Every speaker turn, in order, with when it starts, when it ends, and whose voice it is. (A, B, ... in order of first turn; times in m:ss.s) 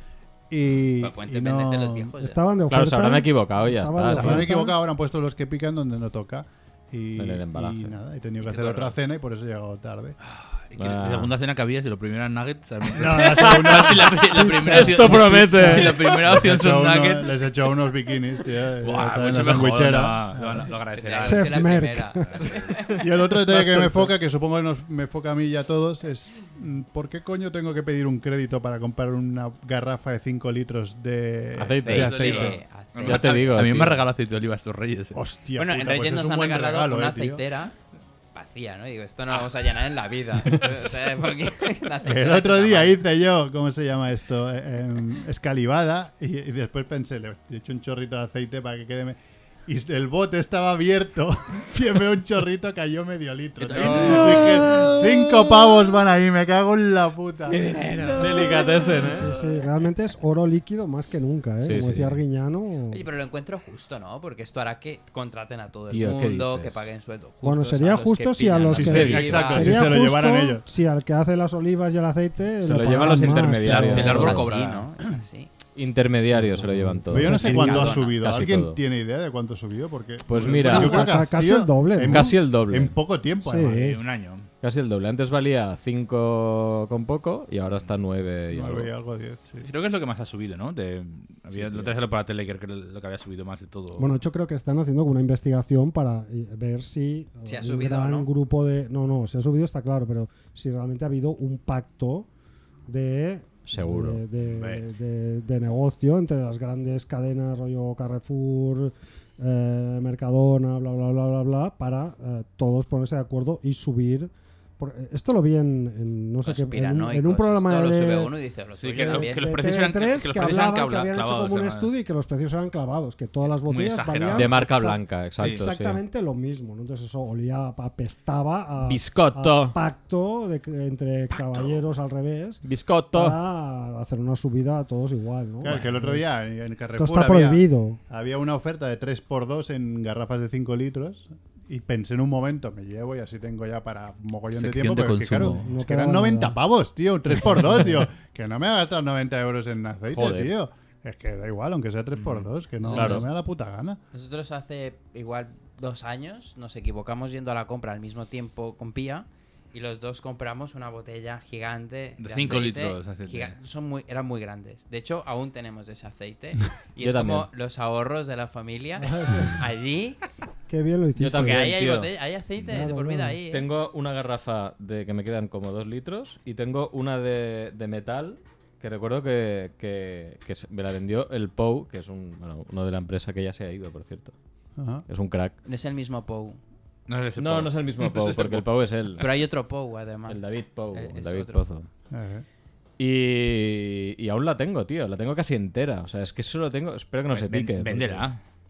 0:00.5-0:02.2 A
0:01.0-0:02.4 B
0:02.2-0:04.7 C
0:02.7-0:04.5 D
0:04.0-0:10.2 A
0:07.2-0:08.0 D
0:08.4-0:08.9 E
0:10.2-0:17.4 E
0:10.8-0:11.3 D
0:12.9-0:14.3 A
0:13.3-0:16.3 D
0:14.3-0:15.9 C
0:16.0-0:20.7 A
0:18.8-0:22.8 E
0:21.0-0:23.0 B
0:21.2-0:22.2 C
0:22.9-0:32.6 A
0:31.6-0:32.1 D
0:31.8-0:33.6 B
0:31.9-0:35.2 E
0:33.1-0:34.0 D
0:35.1-0:37.4 A
0:35.6-0:37.7 B
0:38.3-0:43.0 B
0:40.5-0:40.8 A
0:42.0-0:57.6 A
0:53.6-0:54.7 E
0:57.5-0:59.6 B
0:58.1-0:59.3 D
0:59.1-1:03.0 C
1:01.6-1:02.2 D
1:02.9-1:09.8 B
1:05.9-1:06.8 D
1:07.4-1:14.4 C
1:08.7-1:10.6 A
1:08.8-1:09.6 D
1:12.6-1:14.5 D
1:13.6-1:14.9 E
1:14.0-1:15.5 B
1:15.7-1:18.8 D
1:16.3-1:17.9 C
1:17.1-1:24.0 A
1:17.4-1:18.2 B
1:20.3-1:21.2 D
1:20.6-1:22.3 C
1:22.0-1:22.9 D
1:23.4-1:24.0 C
1:23.7-1:24.5 E
1:24.6-1:28.9 D
1:28.5-1:29.6 A
1:29.6-1:34.1 E
1:31.5-1:31.9 D
1:34.0-1:42.3 C
1:37.4-1:38.3 B
1:42.9-1:58.3 C
1:43.7-1:44.2 D
1:44.4-1:44.8 E
1:56.4-1:59.6 B
1:58.8-2:01.9 E
1:59.0-2:16.3 C
2:03.5-2:04.6 E
2:04.3-2:06.0 D
2:05.4-2:05.6 E
2:08.9-2:09.8 D
2:11.4-2:11.8 E
2:12.6-2:13.4 D
2:15.6-2:34.0 A
2:17.0-2:18.0 C
2:24.5-2:25.6 E
2:25.4-2:26.6 C
2:27.6-2:27.9 C
2:30.1-2:30.5 D
2:32.8-2:33.2 B
2:32.9-2:33.2 D
2:34.1-2:50.2 B
2:42.2-2:43.5 E
2:47.0-2:47.5 D
2:49.0-2:49.6 C
2:50.7-2:51.8 C
2:51.2-2:52.1 D
2:51.4-2:53.7 B
2:52.7-2:53.4 C
2:53.5-3:04.3 D
3:04.8-3:05.0 A
3:05.1-3:05.6 D
3:05.6-3:06.6 B
3:07.1-3:08.6 E
3:07.4-3:09.3 D
3:09.2-3:11.6 B
3:10.3-3:11.9 D
3:12.1-3:12.4 A
3:13.0-3:18.3 D
3:17.3-3:18.4 E